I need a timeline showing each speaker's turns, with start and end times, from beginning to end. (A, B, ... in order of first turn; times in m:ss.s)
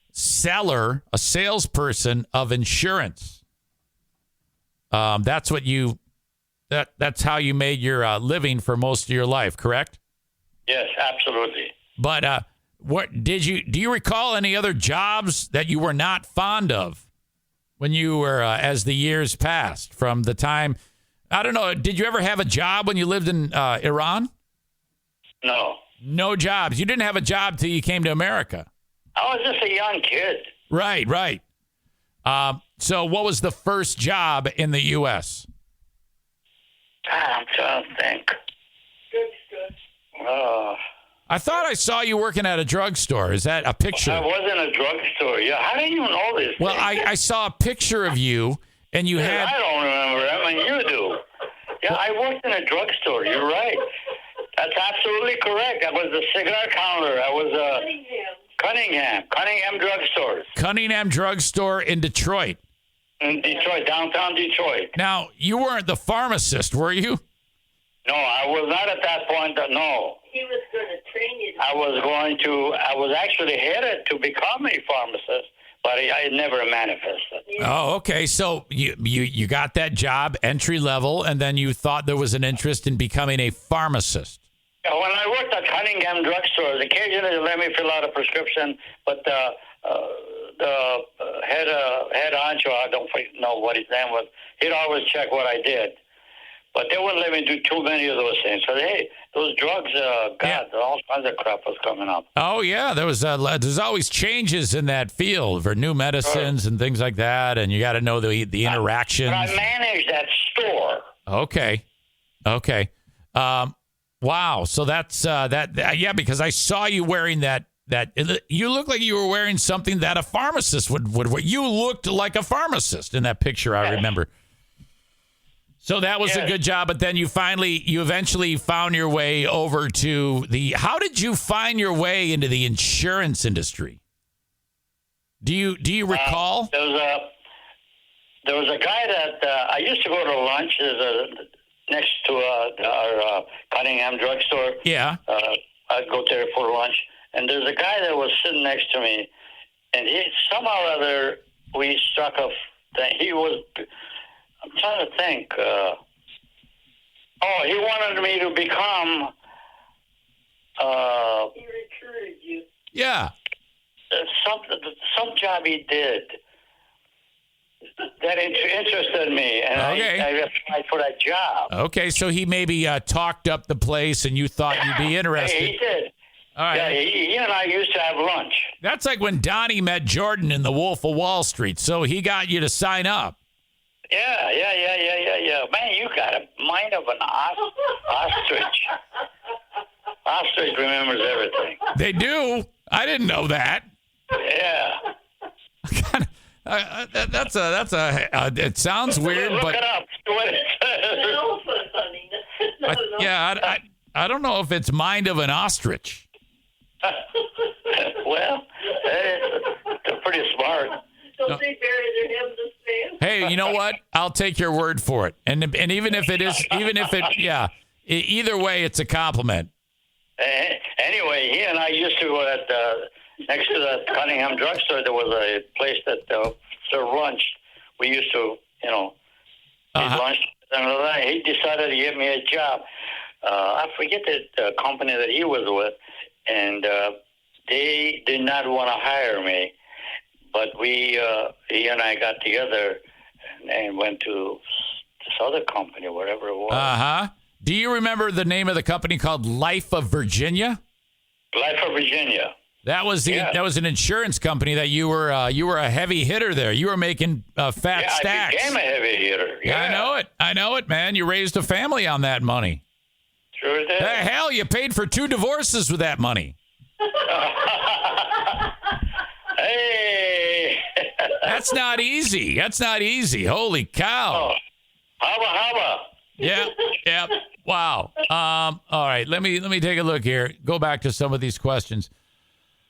0:00.1-0:03.4 A
0:04.9-0:06.0 A
0:06.7-0:10.0 A
0:10.7-0:11.7 B
0:12.0-0:17.0 A
0:17.8-0:20.8 A
0:21.3-0:24.3 A
0:25.4-0:25.8 B
0:26.0-0:28.7 A
0:29.2-0:30.5 B
0:30.7-0:31.4 A
0:32.2-0:35.4 A
0:37.1-0:38.3 B
0:39.1-0:39.7 C
0:40.2-0:40.8 B
0:41.3-0:44.2 A
0:43.9-0:47.0 B
0:46.6-0:49.5 A
0:49.2-0:51.2 B
0:51.8-0:53.9 B
0:54.6-0:57.9 B
0:57.8-0:58.4 C
0:58.6-1:00.5 B
1:00.5-1:02.6 A
1:03.2-1:04.9 B
1:04.9-1:07.2 A
1:08.0-1:10.2 B
1:10.3-1:11.7 C
1:11.6-1:17.4 B
1:17.6-1:24.4 A
1:24.8-1:36.0 B
1:36.7-1:42.3 B
1:42.4-1:49.5 A
1:46.2-1:46.5 B
1:48.6-1:51.1 B
1:51.3-1:51.8 A
1:52.5-2:04.3 A
2:05.8-2:14.0 A
2:06.2-2:06.5 B
2:15.4-2:16.7 A
2:16.1-2:17.3 B
2:18.4-2:29.3 B
2:24.8-2:25.2 A
2:29.9-2:33.8 B
2:34.7-2:36.0 B
2:37.4-2:39.3 B
2:40.8-2:41.5 B
2:41.6-2:42.6 C
2:42.9-2:43.3 A
2:44.1-2:46.4 B
2:48.2-2:51.7 B
2:49.8-2:50.3 A
2:51.7-2:55.7 A
2:54.8-2:56.1 B
2:56.6-2:57.0 A
2:56.7-2:58.7 B
2:58.8-3:03.4 A
3:04.1-3:08.9 B
3:10.2-3:11.8 B
3:11.9-3:13.8 A
3:14.3-3:15.0 B
3:15.8-3:19.8 A
3:19.2-3:21.4 B
3:21.1-3:23.3 C
3:22.8-3:26.2 A
3:27.8-3:31.0 B
3:31.4-3:33.4 C
3:33.2-3:39.7 A
3:40.4-3:49.2 B
3:49.9-3:50.2 A
3:50.0-3:52.8 B
3:53.4-3:57.2 B
3:57.7-3:59.7 B
4:00.5-4:03.0 B
4:03.6-4:04.6 B
4:05.3-4:06.9 B
4:06.7-4:10.8 A
4:11.5-4:12.5 B
4:12.8-4:18.8 A
4:13.2-4:13.6 B
4:17.9-4:20.1 B
4:19.6-4:22.8 A
4:23.6-4:24.2 B
4:24.0-4:26.6 A
4:27.1-4:28.7 B
4:29.5-4:31.4 B
4:31.4-4:34.5 A
4:34.3-4:34.6 B
4:35.2-4:36.1 B
4:36.4-4:42.1 A